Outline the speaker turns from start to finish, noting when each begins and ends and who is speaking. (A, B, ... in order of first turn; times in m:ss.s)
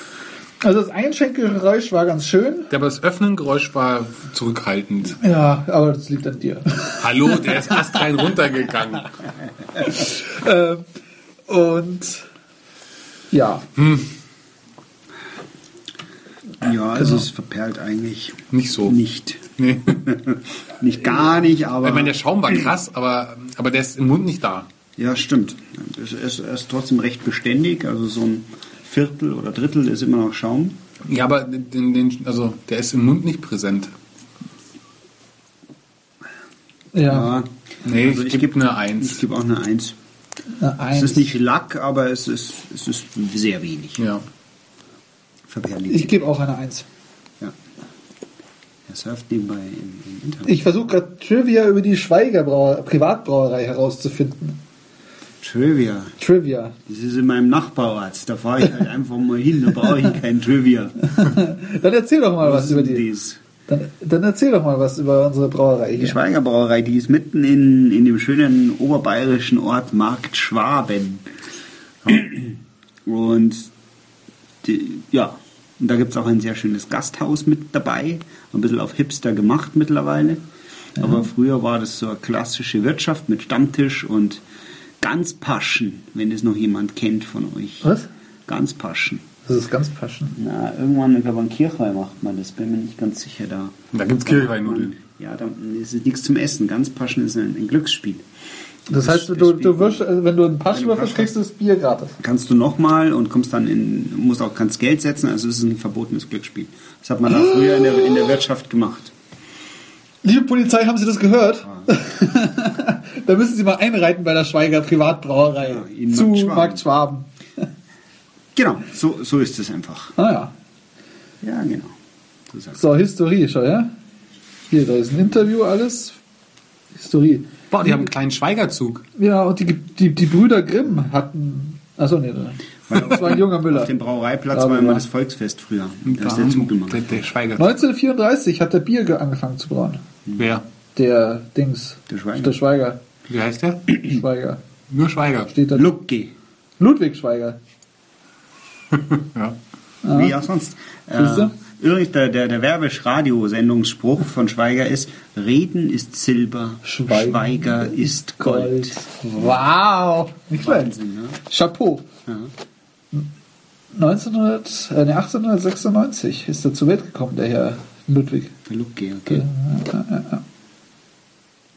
0:00.6-0:02.7 A
0:02.7-0:05.2 B
0:05.2-0:08.0 A
0:07.0-0:09.1 B
0:09.8-0:10.8 A
0:11.5-0:12.2 A
0:13.3-0:13.6 A
0:13.8-0:14.1 B
0:16.6-0:22.7 C
0:17.0-0:17.2 A
0:18.5-0:19.0 B
0:19.6-0:20.0 B
0:21.8-0:24.7 B
0:25.0-0:30.8 C
0:31.0-0:33.9 B
0:36.9-0:37.3 A
0:37.1-0:39.9 C
0:37.8-0:39.2 B
0:40.6-0:41.3 A
0:40.9-0:44.0 C
0:44.0-0:44.2 B
0:45.5-0:46.2 C
0:45.9-0:46.8 A
0:48.9-0:50.5 C
0:50.4-0:54.6 A
0:55.4-0:56.2 C
0:56.2-0:56.7 A
0:56.9-1:01.0 C
1:01.2-1:03.1 A
1:02.4-1:03.4 C
1:03.7-1:06.2 A
1:06.0-1:11.2 C
1:12.0-1:12.5 C
1:13.0-1:13.7 C
1:14.6-1:20.4 C
1:21.0-1:24.4 C
1:25.0-1:27.9 C
1:27.8-1:28.1 A
1:28.5-1:29.2 C
1:29.4-1:30.4 A
1:30.4-1:38.2 C
1:33.9-1:34.9 B
1:38.9-1:40.1 C
1:38.9-1:42.2 A
1:40.7-1:41.3 C
1:42.2-1:49.1 C
1:50.2-1:57.3 A
1:55.6-1:56.8 C
1:58.5-2:00.1 C
2:00.2-2:00.5 A
2:01.4-2:01.9 C
2:02.5-2:02.8 C
2:02.7-2:03.9 A
2:04.7-2:06.2 A
2:06.9-2:08.1 A
2:07.7-2:09.0 B
2:09.2-2:13.9 A
2:12.9-2:17.2 C
2:14.5-2:15.0 A
2:16.0-2:17.8 B
2:17.6-2:20.0 A
2:20.4-2:20.6 B
2:20.9-2:23.0 A
2:22.1-2:22.6 C
2:23.3-2:24.0 B
2:23.9-2:24.6 A
2:24.9-2:25.5 B
2:25.5-2:25.9 A
2:25.7-2:26.3 C
2:26.8-2:27.6 A
2:28.9-2:29.6 B
2:30.0-2:30.4 A
2:30.1-2:39.6 C
2:31.1-2:31.5 A
2:36.8-2:40.9 A
2:40.6-2:41.4 C
2:41.5-2:42.1 A
2:42.2-2:42.5 C
2:43.9-2:48.5 A
2:48.7-2:49.5 C
2:49.3-2:50.4 A